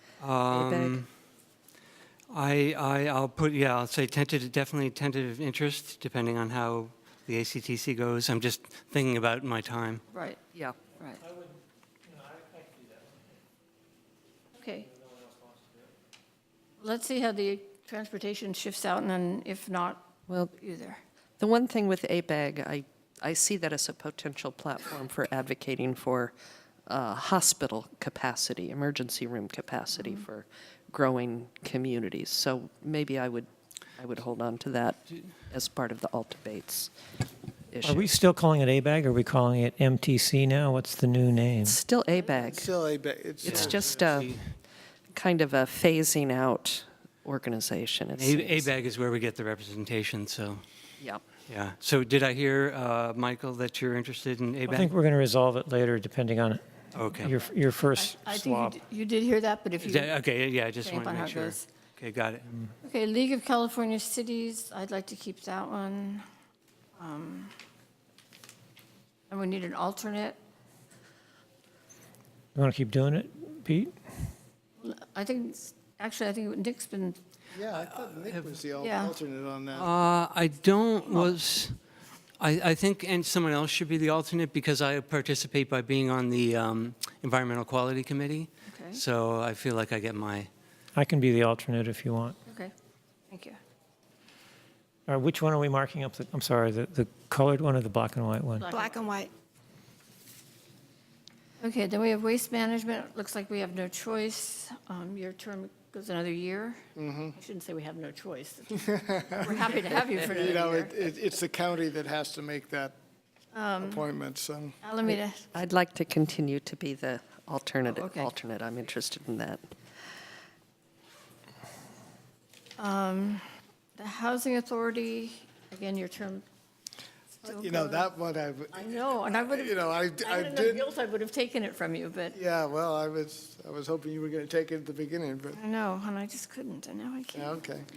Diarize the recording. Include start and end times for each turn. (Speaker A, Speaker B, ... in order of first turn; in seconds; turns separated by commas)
Speaker A: 0.2-1.1, Speaker B: 0.5-1.0, Speaker A: 2.3-10.0, Speaker C: 10.1-10.4, Speaker D: 11.2-13.4, Speaker C: 14.5-14.9, Speaker D: 14.8-15.9, Speaker C: 16.8-21.0, Speaker B: 21.4-26.3, Speaker B: 26.9-36.9, Speaker B: 37.7-38.1, Speaker D: 37.8-41.8, Speaker B: 41.6-42.7, Speaker E: 42.3-44.3, Speaker B: 43.4-44.3, Speaker A: 43.4-44.5, Speaker B: 45.1-48.7, Speaker A: 48.1-50.6, Speaker A: 51.5-54.9, Speaker D: 54.7-58.8, Speaker A: 56.9-57.3, Speaker C: 57.9-60.1, Speaker A: 59.8-62.5, Speaker C: 60.8-61.7, Speaker C: 62.8-66.2, Speaker C: 67.0-67.5, Speaker C: 69.3-70.4, Speaker D: 72.5-73.9, Speaker C: 74.8-77.2, Speaker E: 77.5-79.9, Speaker A: 77.7-78.6, Speaker C: 78.8-79.1, Speaker A: 79.7-81.8, Speaker A: 82.4-90.5, Speaker C: 88.7-89.0, Speaker D: 90.9-92.3, Speaker C: 92.5-92.7, Speaker C: 93.3-93.6, Speaker D: 95.1-98.7, Speaker C: 98.6-99.3, Speaker C: 101.6-111.1, Speaker E: 107.0-107.3, Speaker E: 108.8-112.9, Speaker C: 113.5-114.1, Speaker E: 113.8-114.8, Speaker C: 114.8-115.5, Speaker B: 115.0-119.6, Speaker C: 117.9-118.3, Speaker C: 122.8-126.4, Speaker C: 127.4-128.1, Speaker E: 127.4-130.9, Speaker C: 128.7-132.3, Speaker E: 132.3-135.6, Speaker C: 135.5-137.7, Speaker E: 137.3-137.9